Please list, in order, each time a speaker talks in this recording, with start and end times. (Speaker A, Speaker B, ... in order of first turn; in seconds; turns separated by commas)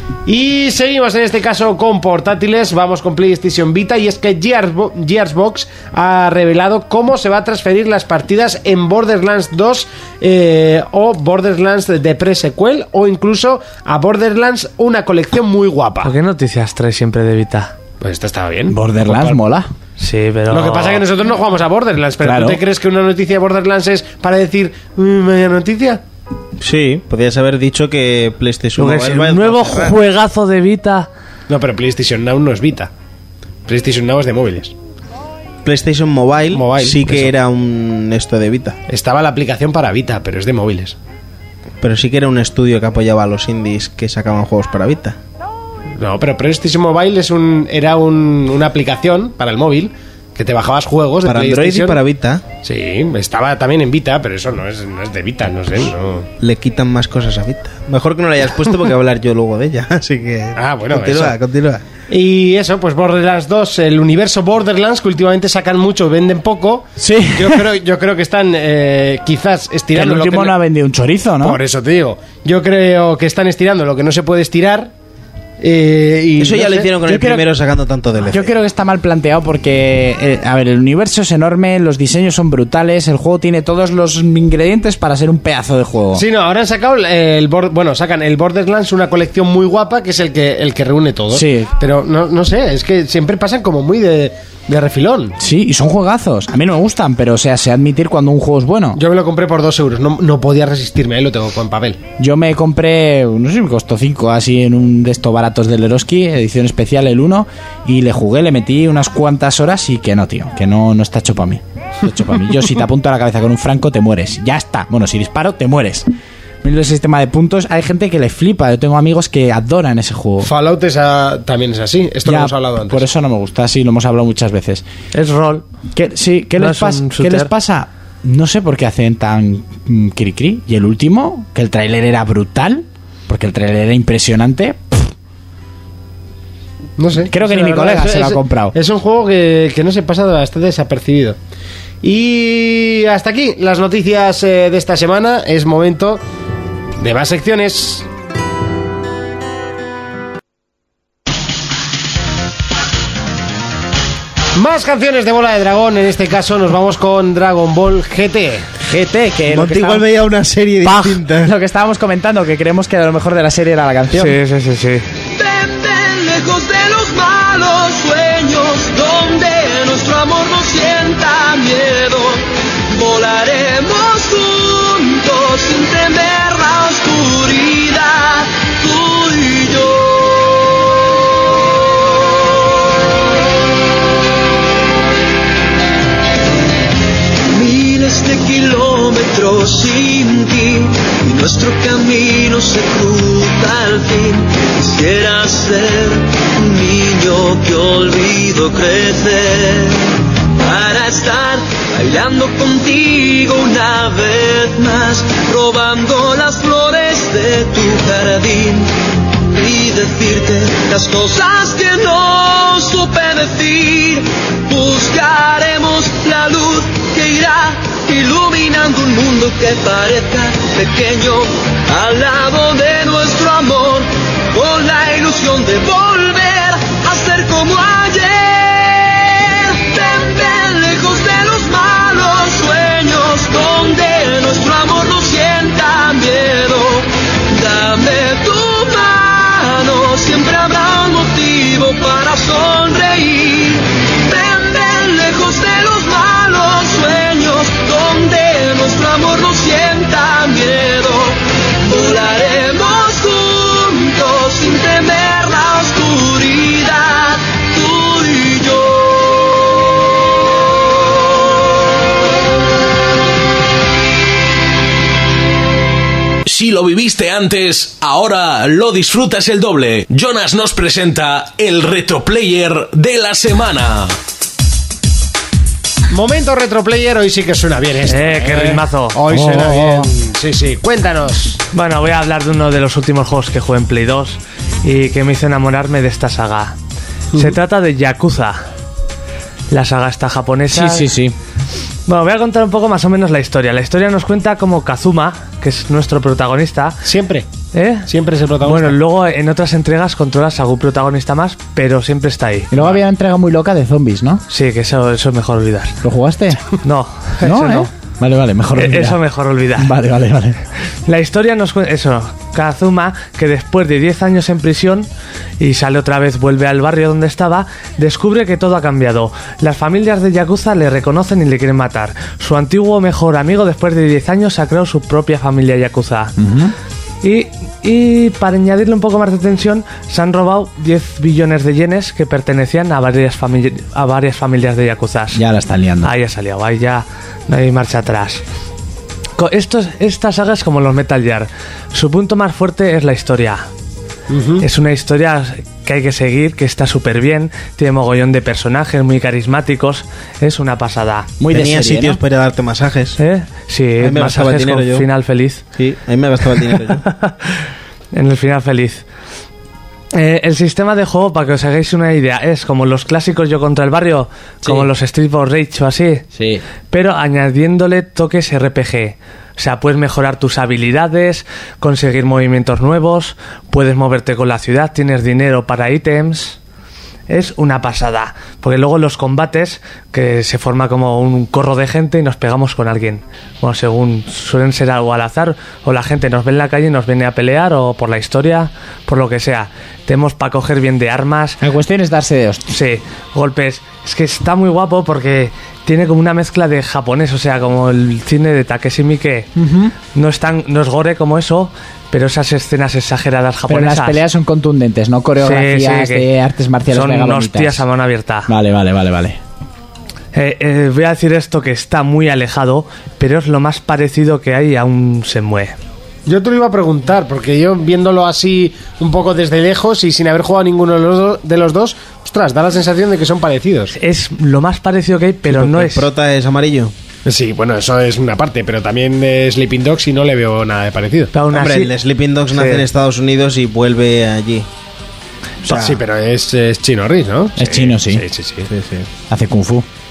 Speaker A: 0.2-16.1, Speaker B: 16.0-17.7, Speaker A: 18.0-19.4, Speaker C: 18.7-19.7, Speaker B: 20.0-21.0, Speaker A: 20.5-26.0, Speaker C: 22.2-22.6, Speaker D: 26.6-29.9, Speaker B: 28.8-31.1, Speaker A: 31.5-32.9, Speaker A: 33.7-34.7, Speaker D: 35.6-38.8, Speaker A: 36.5-37.3, Speaker A: 38.9-41.0, Speaker D: 41.8-45.1, Speaker A: 46.0-52.0, Speaker D: 51.2-52.5, Speaker A: 52.6-56.3, Speaker D: 56.4-61.8, Speaker A: 60.5-61.4, Speaker A: 62.1-70.5, Speaker C: 67.0-67.7, Speaker C: 69.9-71.6, Speaker A: 71.4-74.9, Speaker A: 75.6-76.9, Speaker D: 76.4-78.5, Speaker C: 77.0-77.5, Speaker C: 78.2-86.2, Speaker A: 86.1-95.3, Speaker C: 91.3-91.7, Speaker C: 95.4-99.0, Speaker A: 98.9-102.0, Speaker C: 102.2-116.1, Speaker C: 116.6-120.5, Speaker A: 120.4-123.0, Speaker C: 122.2-124.8, Speaker B: 125.1-125.6, Speaker C: 125.9-135.1, Speaker B: 126.6-127.5, Speaker A: 137.0-141.4, Speaker C: 137.3-138.7, Speaker A: 142.0-146.2, Speaker A: 147.0-148.1, Speaker A: 154.5-158.7, Speaker C: 158.8-160.1, Speaker D: 159.5-161.5, Speaker C: 160.8-164.4, Speaker B: 164.1-165.0, Speaker E: 165.3-180.6, Speaker E: 187.5-259.5, Speaker F: 266.4-274.1, Speaker A: 276.1-281.6, Speaker B: 278.1-279.2, Speaker C: 279.3-280.1, Speaker B: 281.7-286.8, Speaker B: 287.3-288.6, Speaker B: 289.7-291.1, Speaker C: 290.7-291.3, Speaker B: 292.1-297.0, Speaker A: 297.0-297.5, Speaker B: 297.7-298.1, Speaker A: 298.1-298.9, Speaker B: 298.6-302.7, Speaker C: 302.7-304.4, Speaker B: 304.5-306.0, Speaker C: 306.0-306.6, Speaker B: 306.8-307.9, Speaker C: 307.4-309.2, Speaker B: 308.8-309.9, Speaker C: 309.8-310.6, Speaker B: 311.1-315.1, Speaker B: 315.6-326.3, Speaker C: 326.4-326.7, Speaker B: 327.2-335.4, Speaker C: 335.3-336.1, Speaker B: 336.0-338.4, Speaker B: 339.4-343.7, Speaker A: 344.3-344.6, Speaker B: 344.6-351.3, Speaker C: 351.4-352.2, Speaker D: 351.5-353.2, Speaker B: 353.2-355.6, Speaker D: 354.0-355.1, Speaker D: 355.8-357.0, Speaker B: 357.1-357.4, Speaker B: 358.1-359.0, Speaker B: 360.1-366.2, Speaker C: 366.3-366.6, Speaker B: 366.9-376.6, Speaker B: 377.3-391.6, Speaker C: 391.6-392.7, Speaker B: 392.7-399.5, Speaker C: 399.6-399.9, Speaker B: 400.1-404.2, Speaker C: 403.7-407.8, Speaker B: 405.4-406.2, Speaker B: 406.9-408.5, Speaker C: 408.5-409.4, Speaker B: 410.3-415.7, Speaker A: 416.2-423.9, Speaker B: 423.9-426.1, Speaker D: 425.5-426.9, Speaker A: 427.2-431.3, Speaker B: 431.3-431.9, Speaker D: 431.5-434.7, Speaker B: 432.5-432.9, Speaker D: 435.6-436.0, Speaker A: 435.7-438.7, Speaker C: 437.6-438.2, Speaker D: 438.7-439.1, Speaker C: 439.3-439.9